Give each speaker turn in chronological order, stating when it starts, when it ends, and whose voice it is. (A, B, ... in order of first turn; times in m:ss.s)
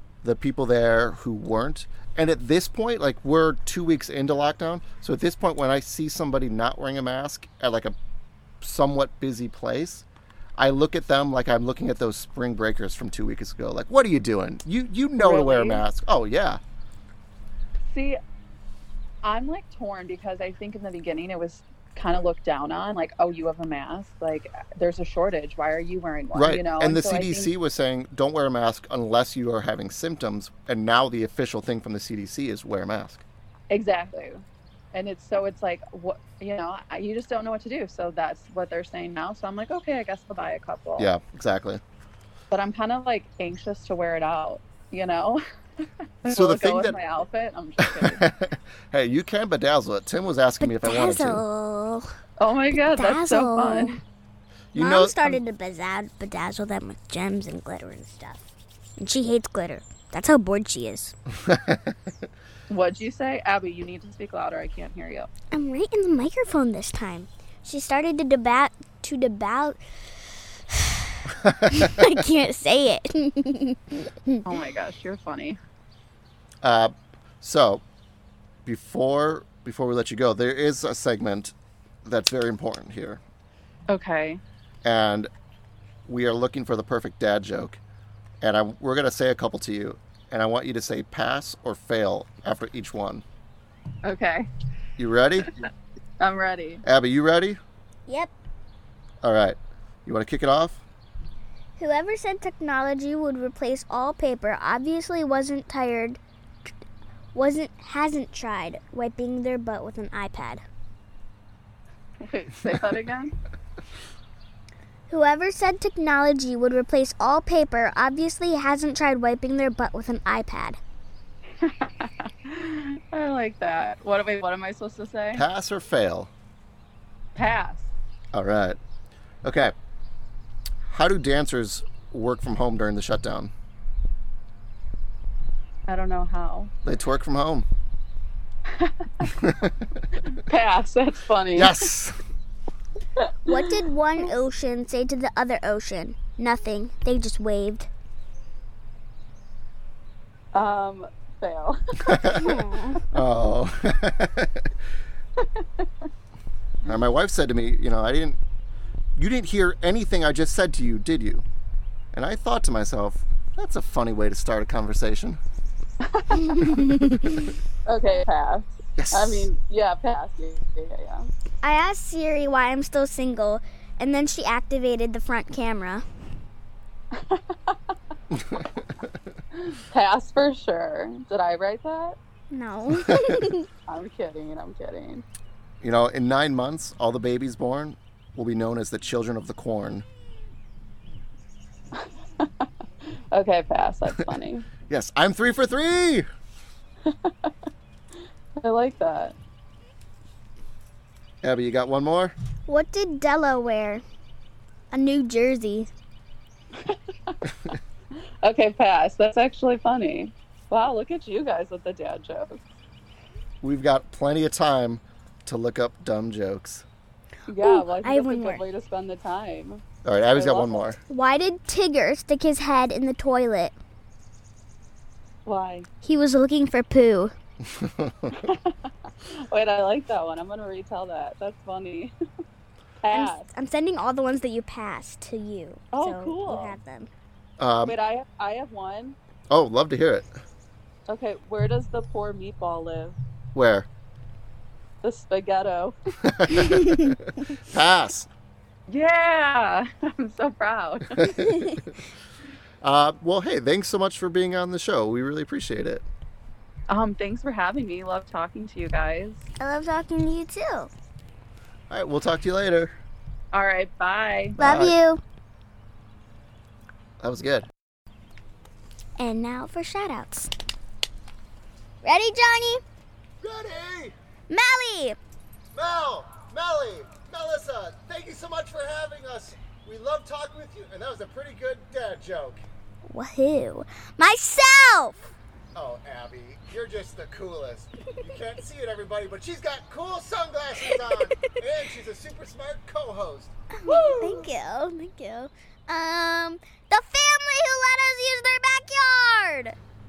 0:00.2-0:07.9 A
0:08.6-0:10.0 A
0:10.6-0:16.6 A
0:15.2-0:15.8 B
0:17.8-0:18.2 B
0:19.2-0:27.5 B
0:26.3-0:33.2 A
0:33.7-0:41.1 B
0:41.0-0:41.8 A
0:42.5-0:48.2 B
0:46.3-0:47.0 A
0:47.8-0:51.4 A
0:50.6-0:52.1 C
0:52.4-0:54.0 B
0:52.8-0:54.0 C
0:54.7-0:55.4 A
0:54.8-0:58.4 C
0:59.0-1:01.1 C
1:01.4-1:02.0 A
1:02.7-1:05.3 B
1:05.5-1:10.9 C
1:11.4-1:11.7 A
1:11.7-1:14.4 C
1:14.4-1:15.6 B
1:16.6-1:17.8 A
1:18.6-1:23.2 A
1:23.9-1:24.4 B
1:24.8-1:25.3 A
1:26.1-1:27.8 A
1:28.4-1:33.2 A
1:34.0-1:34.5 B
1:35.0-1:35.5 A
1:36.2-1:36.8 B
1:36.8-1:37.6 A
1:38.1-1:38.3 C
1:39.2-1:40.8 A
1:41.8-1:46.2 C
1:47.3-1:50.6 C
1:52.2-1:53.3 B
1:55.1-2:00.8 C
2:01.6-2:05.4 B
2:05.3-2:06.3 A
2:07.4-2:07.9 B
2:08.3-2:08.8 A
2:09.4-2:09.7 A
2:10.9-2:13.5 A
2:15.9-2:16.7 B
2:16.8-2:17.7 A
2:18.8-2:19.3 B
2:19.4-2:19.8 A
2:20.4-2:21.9 B
2:21.5-2:22.2 A
2:23.2-2:23.6 B
2:23.4-2:27.9 C
2:30.5-2:32.4 B
2:32.0-2:32.5 A
2:32.2-2:33.0 C
2:33.1-2:34.7 A
2:35.4-2:35.8 B
2:36.8-2:38.4 A
2:39.2-2:41.4 A
2:42.1-2:45.4 A
2:46.1-2:46.9 B
2:46.5-2:47.2 C
2:47.8-2:51.3 B
2:49.0-2:49.5 A
2:51.6-2:56.0 C
2:57.1-2:57.8 B
2:58.3-2:58.6 A
2:59.6-3:02.2 B
3:02.5-3:03.7 C
3:03.9-3:05.2 B
3:05.8-3:10.0 A
3:11.9-3:12.7 B
3:13.3-3:14.7 B
3:14.9-3:16.2 A
3:17.0-3:17.5 B
3:18.6-3:19.4 B
3:21.4-3:22.3 A
3:22.7-3:24.0 C
3:24.9-3:25.9 C
3:26.8-3:27.7 B
3:28.4-3:32.6 B
3:33.6-3:36.8 A
3:37.5-3:41.0 B
3:37.6-3:38.6 C
3:40.0-3:41.0 A
3:41.1-3:43.7 C
3:45.4-3:45.8 B
3:46.0-3:47.3 C
3:47.6-3:48.3 A
3:48.4-3:52.1 B
3:53.0-3:53.5 B
3:53.1-3:57.1 C
3:55.9-3:56.8 B
3:57.6-3:57.9 A
3:57.8-3:59.2 B
3:59.5-4:00.3 A
4:01.1-4:03.2 B
4:03.5-4:03.9 A
4:05.0-4:06.0 B
4:06.2-4:08.3 A
4:08.9-4:11.3 B
4:11.2-4:11.8 A
4:12.8-4:16.0 A
4:16.9-4:19.4 B
4:19.6-4:20.9 C
4:21.9-4:22.9 A
4:23.5-4:24.6 B
4:24.6-4:24.9 A
4:24.6-4:25.2 C
4:27.2-4:27.7 A
4:29.2-4:30.5 C
4:32.0-4:32.8 C
4:33.4-4:34.1 A
4:34.5-4:35.2 C
4:35.7-4:42.6 A
4:43.0-4:45.2 C
4:45.7-4:54.5 A
4:50.8-4:51.4 C
4:53.8-4:59.8 C